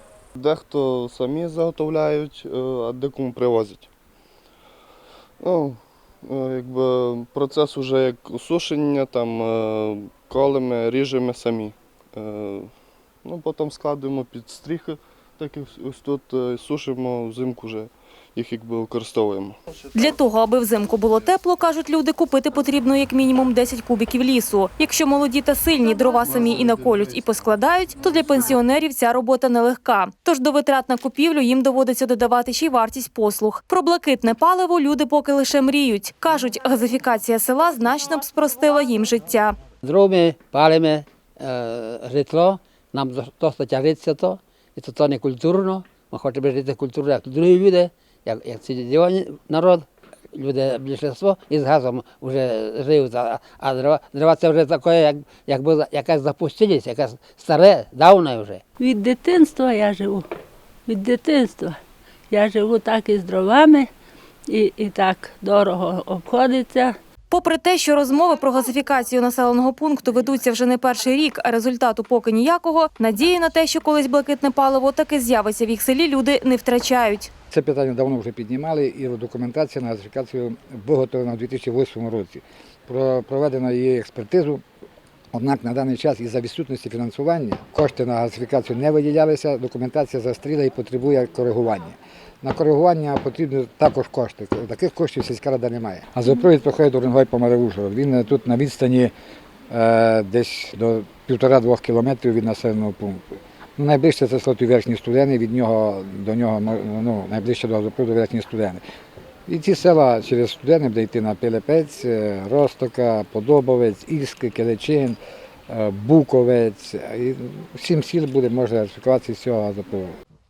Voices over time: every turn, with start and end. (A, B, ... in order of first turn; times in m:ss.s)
0:00.4-0:03.9 A
0:05.4-0:12.7 A
0:13.2-0:19.6 A
0:19.9-0:39.6 B
0:39.8-0:58.6 C
0:58.8-1:00.2 D
1:00.9-1:01.8 D
1:02.3-1:03.9 D
1:04.5-1:06.9 D
1:07.3-1:17.3 B
1:17.5-1:24.6 E
1:25.3-1:39.1 E
1:39.7-1:48.8 E
1:49.5-1:55.2 E
1:55.7-2:00.1 E